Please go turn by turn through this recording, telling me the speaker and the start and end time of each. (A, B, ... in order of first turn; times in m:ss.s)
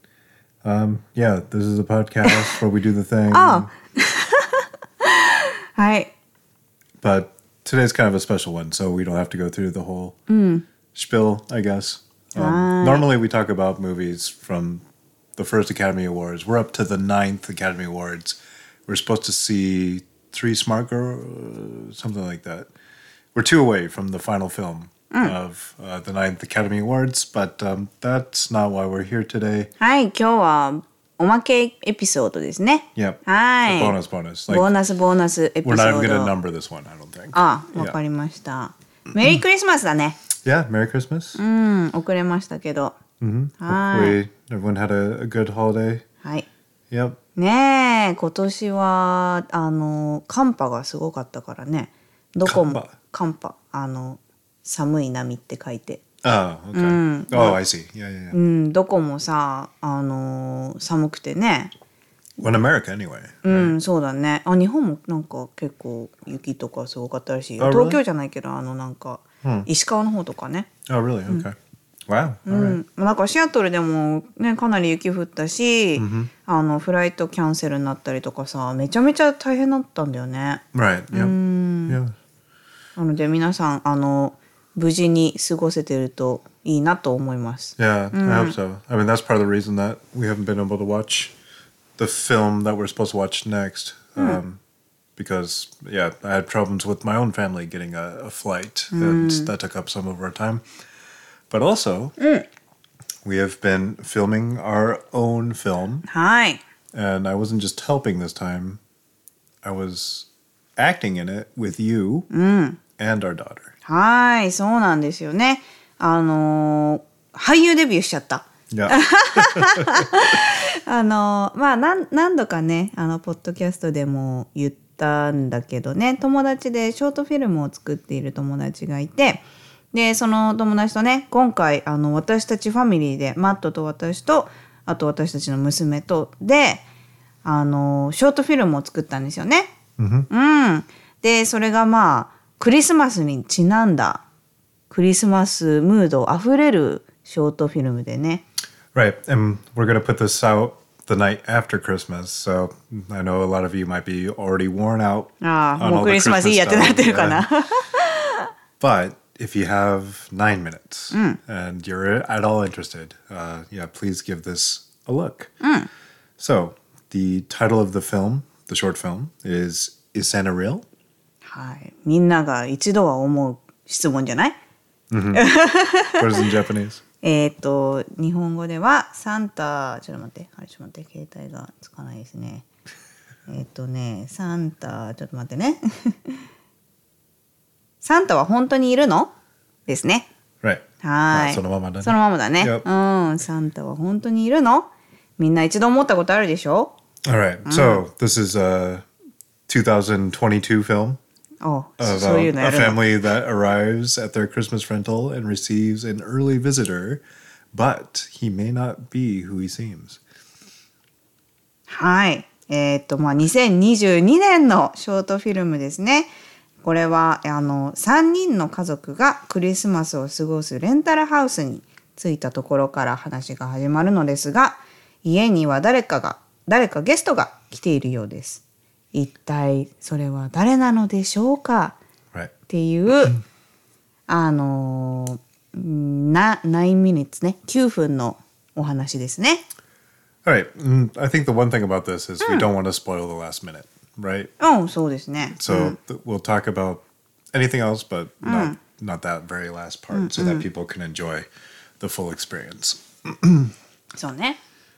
0:00.6-0:03.7 A
0:02.2-0:02.6 B
0:03.3-0:06.1 B
0:07.0-0:10.2 A
0:10.3-0:10.6 B
0:10.9-0:14.8 A
0:12.3-0:13.1 B
0:15.4-0:22.7 A
0:23.3-0:29.7 A
0:29.8-0:36.3 B
0:33.0-0:34.7 A
0:35.6-0:38.0 A
0:37.3-0:40.2 B
0:40.4-0:41.4 A
0:41.4-0:43.0 B
0:43.2-0:46.0 A
0:43.6-0:44.2 B
0:46.9-0:47.2 A
0:47.4-0:56.0 B
0:52.4-0:52.9 A
0:56.2-0:58.4 A
0:56.7-0:57.6 B
0:58.3-1:01.7 B
1:02.4-1:03.7 A
1:03.4-1:10.7 B
1:07.6-1:08.0 A
1:09.4-1:09.7 A
1:10.8-1:11.6 A
1:12.1-1:12.8 A
1:12.5-1:22.0 B
1:16.0-1:16.3 A
1:20.7-1:21.4 A
1:21.9-1:22.1 A
1:23.0-1:28.6 B
1:27.8-1:31.3 A
1:32.0-1:34.6 A
1:35.2-1:40.6 A
1:38.9-1:39.5 B
1:41.5-1:42.1 A
1:42.2-1:42.4 B
1:43.2-1:46.0 A
1:46.1-1:46.6 B
1:46.9-1:48.8 A
1:49.6-1:52.3 A
1:52.3-1:52.8 B
1:53.0-1:53.7 A
1:53.8-2:16.8 B
1:58.7-2:00.1 A
2:17.4-2:19.7 B
2:20.0-2:20.3 A
2:20.3-2:24.2 B
2:24.9-2:28.4 B
2:28.9-2:37.5 A
2:35.4-2:38.5 B
2:38.8-2:45.5 A
2:41.1-2:41.4 B
2:45.6-2:45.9 B
2:46.4-2:50.8 A
2:51.4-2:54.6 B
2:55.1-2:55.4 A
2:55.3-2:56.5 B
2:56.2-2:57.0 A
2:57.2-3:02.6 B
3:03.5-3:06.4 B
3:08.0-3:09.3 B
3:09.9-3:10.3 B
3:10.6-3:12.8 A
3:11.0-3:16.9 B
3:17.2-3:19.0 A
3:17.6-3:18.0 B
3:19.7-3:21.2 A
3:21.6-3:23.0 B
3:22.0-3:27.2 A
3:27.7-3:30.2 A
3:31.9-3:36.3 B
3:36.8-3:48.6 B
3:49.1-3:52.0 B
3:52.7-3:53.4 B
3:54.3-3:59.6 B
4:00.4-4:04.5 A
4:02.4-4:02.7 B
4:04.6-4:06.0 B
4:05.6-4:11.4 A
4:08.4-4:08.8 B
4:10.1-4:10.6 B
4:12.0-4:13.7 A
4:14.1-4:14.6 B